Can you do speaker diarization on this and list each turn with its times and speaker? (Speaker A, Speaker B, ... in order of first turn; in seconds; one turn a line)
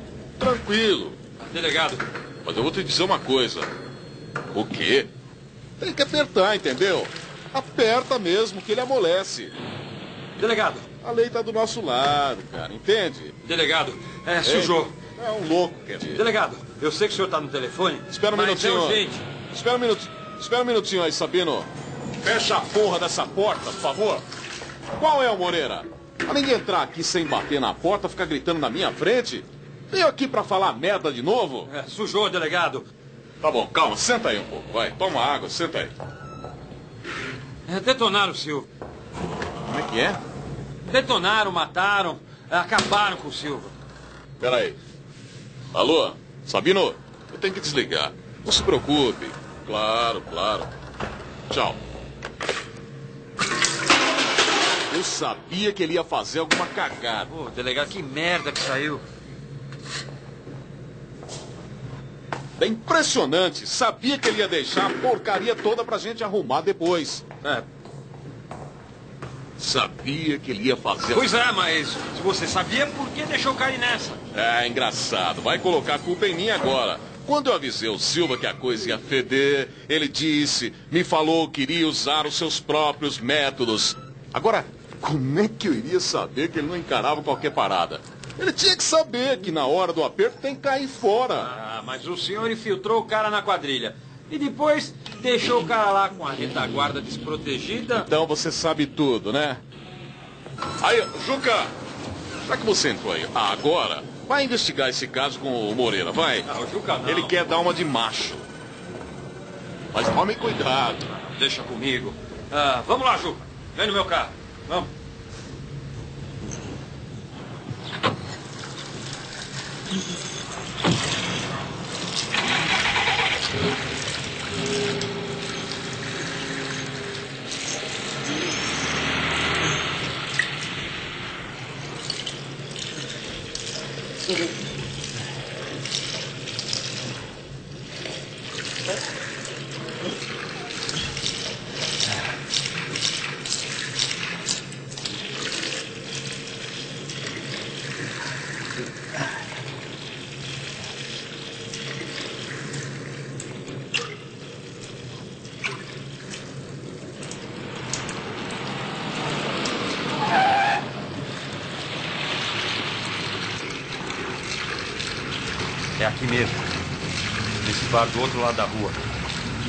Speaker A: 0.4-1.2
Speaker B: 1.4-2.0
Speaker A: 2.4-3.7
Speaker A: 4.5-5.1
Speaker A: 5.8-9.6
Speaker B: 10.4-10.9
Speaker A: 11.0-13.3
Speaker B: 13.4-14.9
Speaker A: 14.4-16.2
Speaker B: 16.0-19.2
Speaker A: 18.1-21.7
Speaker A: 22.2-24.2
Speaker A: 24.9-31.7
Speaker B: 31.6-32.9
Speaker A: 33.4-35.9
Speaker B: 37.7-38.7
Speaker A: 39.6-40.2
Speaker B: 40.8-43.7
Speaker A: 44.4-44.8
Speaker A: 45.7-50.7
Speaker A: 51.5-51.8
Speaker A: 54.9-57.3
Speaker B: 57.3-59.0
Speaker A: 62.6-67.2
Speaker A: 69.6-71.4
Speaker B: 71.1-74.2
Speaker A: 74.3-91.5
Speaker B: 91.4-98.1
Speaker A: 97.9-99.6
Speaker A: 100.8-101.7
Speaker A: 102.4-106.5
Speaker B: 106.5-107.3
Speaker A: 107.0-108.5
Speaker A: 109.9-111.1
Speaker B: 111.1-114.9
Speaker B: 166.0-166.7
Speaker B: 167.6-169.0